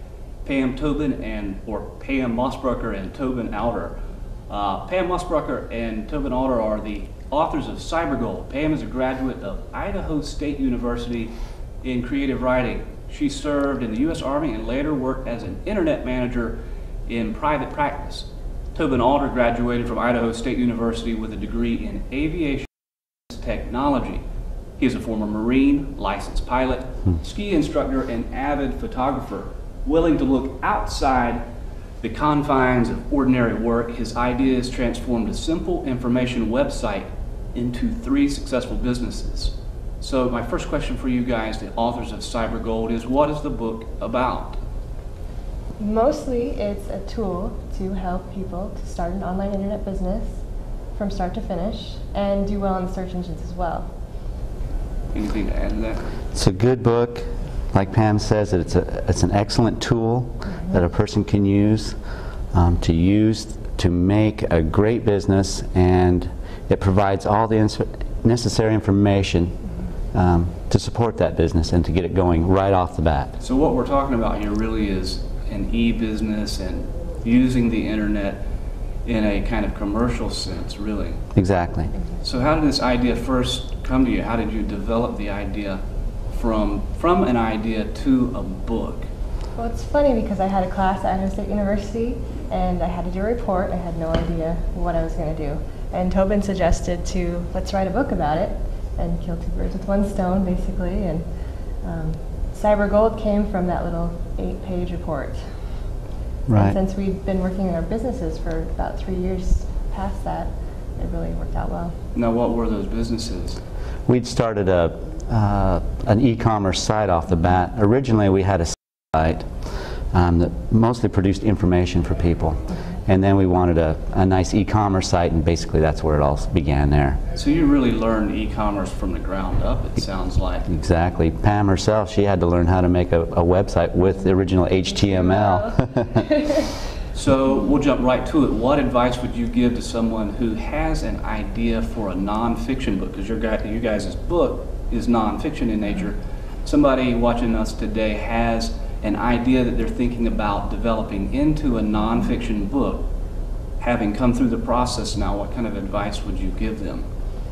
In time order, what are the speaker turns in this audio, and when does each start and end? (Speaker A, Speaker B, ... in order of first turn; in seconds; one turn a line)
Speaker A: 0.4-4.0
Speaker A: 4.5-22.7
Speaker A: 23.3-24.2
Speaker A: 24.8-31.4
Speaker A: 32.0-44.6
Speaker B: 45.8-53.9
Speaker A: 55.1-56.1
Speaker C: 56.3-62.0
Speaker B: 60.5-60.8
Speaker C: 62.5-73.3
Speaker A: 73.4-78.4
Speaker A: 79.0-81.2
Speaker C: 81.3-81.9
Speaker A: 82.2-85.8
Speaker A: 86.3-89.1
Speaker B: 89.5-105.8
Speaker C: 106.5-106.8
Speaker B: 106.5-112.0
Speaker A: 112.1-113.6
Speaker C: 114.1-127.2
Speaker A: 127.3-130.7
Speaker C: 130.7-136.0
Speaker B: 134.8-136.7
Speaker A: 137.1-153.1
Speaker A: 153.8-157.0